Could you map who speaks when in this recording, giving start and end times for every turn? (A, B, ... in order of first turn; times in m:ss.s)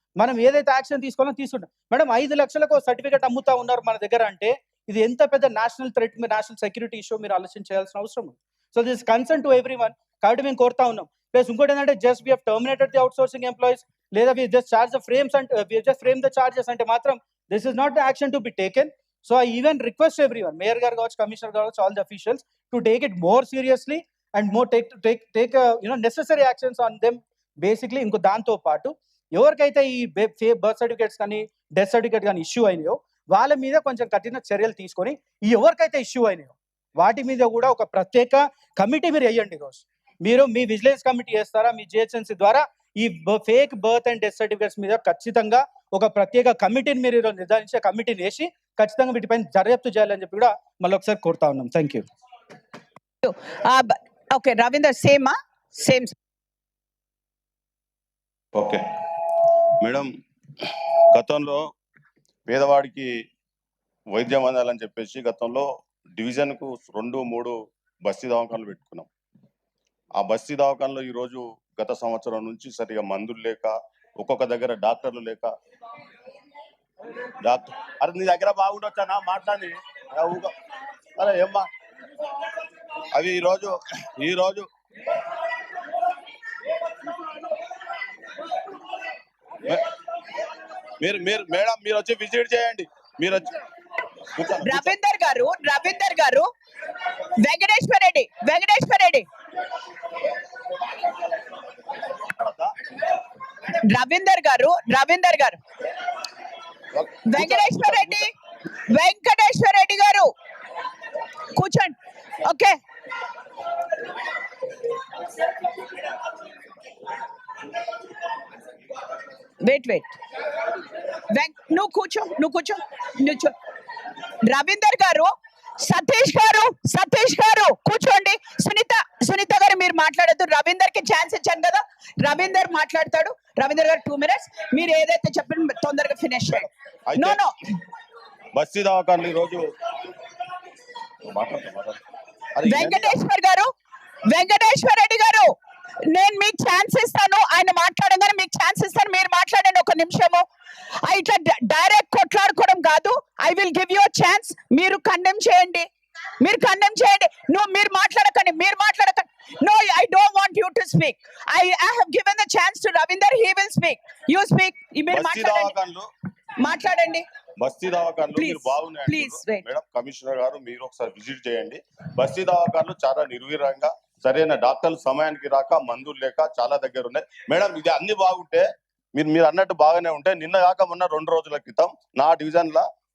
0:00.2-0:52.0 A
0:53.2-0:56.1 B
0:58.5-0:58.8 C
0:59.8-1:00.1 C
1:01.1-1:01.6 C
1:02.5-1:03.1 C
1:04.1-1:09.1 C
1:10.2-1:15.5 C
1:17.4-1:20.5 C
1:21.2-1:21.7 C
1:23.1-1:24.7 C
1:31.0-1:33.6 C
1:34.3-1:34.9 C
1:34.6-1:36.5 B
1:37.4-1:39.2 B
1:42.2-1:42.7 C
1:43.7-1:45.6 B
1:46.9-1:48.2 C
1:47.3-1:48.3 B
1:48.9-1:50.3 B
1:51.6-1:52.8 B
1:59.6-2:00.2 B
2:01.3-2:03.5 B
2:04.4-2:17.5 B
2:17.1-2:17.4 C
2:18.5-2:19.7 C
2:21.3-2:22.0 C
2:22.6-2:23.2 C
2:22.6-2:23.7 B
2:24.3-2:30.4 B
2:31.0-2:35.9 B
2:36.4-2:45.7 B
2:45.1-2:46.1 C
2:46.6-2:47.2 B
2:47.6-3:02.9 C
2:48.4-2:49.6 B